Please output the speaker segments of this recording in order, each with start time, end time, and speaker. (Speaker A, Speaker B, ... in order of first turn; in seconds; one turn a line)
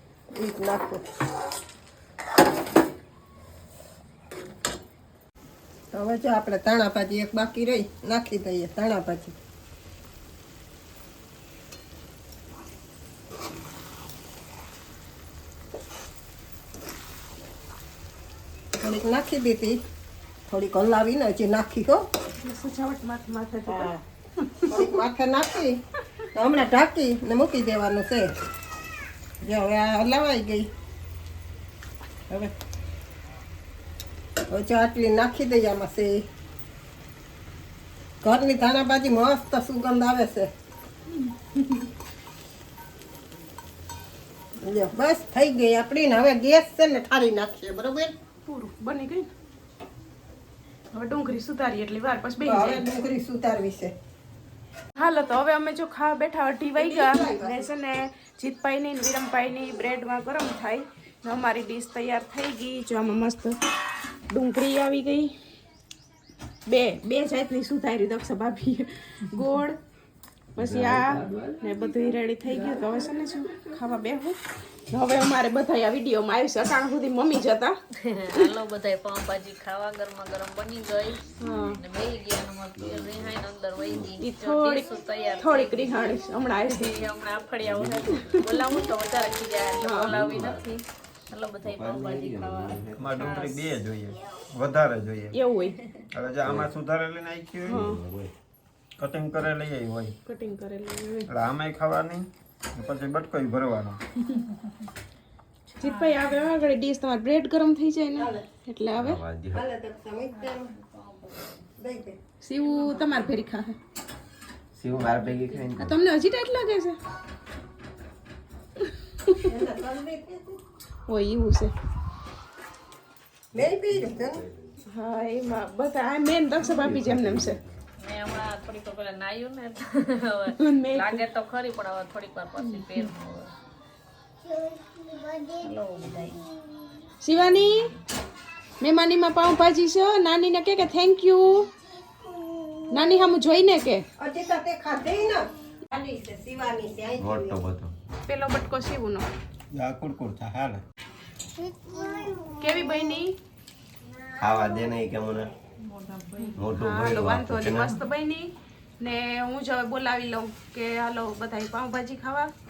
Speaker A: 0.3-1.1
Speaker A: 5.9-9.4
Speaker A: 18.8-19.8
Speaker A: 20.5-22.1
Speaker B: 22.4-24.8
Speaker A: 23.7-24.0
Speaker A: 24.7-25.8
Speaker A: 26.3-28.4
Speaker A: 29.4-30.7
Speaker A: 34.5-36.2
Speaker A: 38.2-40.5
Speaker A: 44.6-48.1
Speaker B: 48.5-49.3
Speaker B: 50.9-52.8
Speaker A: 52.4-53.9
Speaker B: 55.0-63.6
Speaker A: 56.8-57.7
Speaker B: 64.3-65.3
Speaker B: 66.7-69.8
Speaker B: 70.6-74.4
Speaker C: 70.6-71.5
Speaker B: 74.9-77.8
Speaker D: 78.0-93.8
Speaker B: 81.4-81.8
Speaker C: 82.8-83.3
Speaker B: 84.2-84.9
Speaker B: 85.4-86.9
Speaker C: 87.6-88.4
Speaker B: 88.1-88.8
Speaker B: 89.8-90.2
Speaker C: 90.0-90.7
Speaker C: 91.6-93.0
Speaker E: 93.0-95.4
Speaker B: 95.3-95.8
Speaker E: 96.1-97.8
Speaker C: 96.4-96.7
Speaker B: 97.7-98.0
Speaker C: 97.7-98.3
Speaker E: 99.0-100.1
Speaker B: 100.2-101.3
Speaker E: 101.3-104.0
Speaker B: 105.8-109.2
Speaker D: 105.9-106.1
Speaker A: 108.2-108.5
Speaker C: 109.0-109.6
Speaker A: 109.5-110.7
Speaker D: 110.4-111.6
Speaker A: 111.8-112.2
Speaker B: 112.4-113.8
Speaker C: 114.8-116.0
Speaker B: 115.1-117.0
Speaker B: 119.2-119.5
Speaker A: 119.4-120.6
Speaker B: 121.1-121.7
Speaker A: 123.5-124.4
Speaker C: 123.6-124.6
Speaker B: 124.9-127.6
Speaker C: 126.8-127.7
Speaker D: 128.0-133.5
Speaker B: 130.5-131.2
Speaker B: 132.6-133.1
Speaker D: 135.6-136.5
Speaker B: 137.2-137.9
Speaker D: 137.6-137.9
Speaker B: 138.8-141.7
Speaker B: 142.9-144.1
Speaker A: 144.2-147.6
Speaker C: 147.2-147.9
Speaker B: 148.3-149.3
Speaker E: 149.7-150.8
Speaker B: 152.6-153.3
Speaker C: 154.4-155.5
Speaker B: 156.3-162.5
Speaker C: 156.6-158.0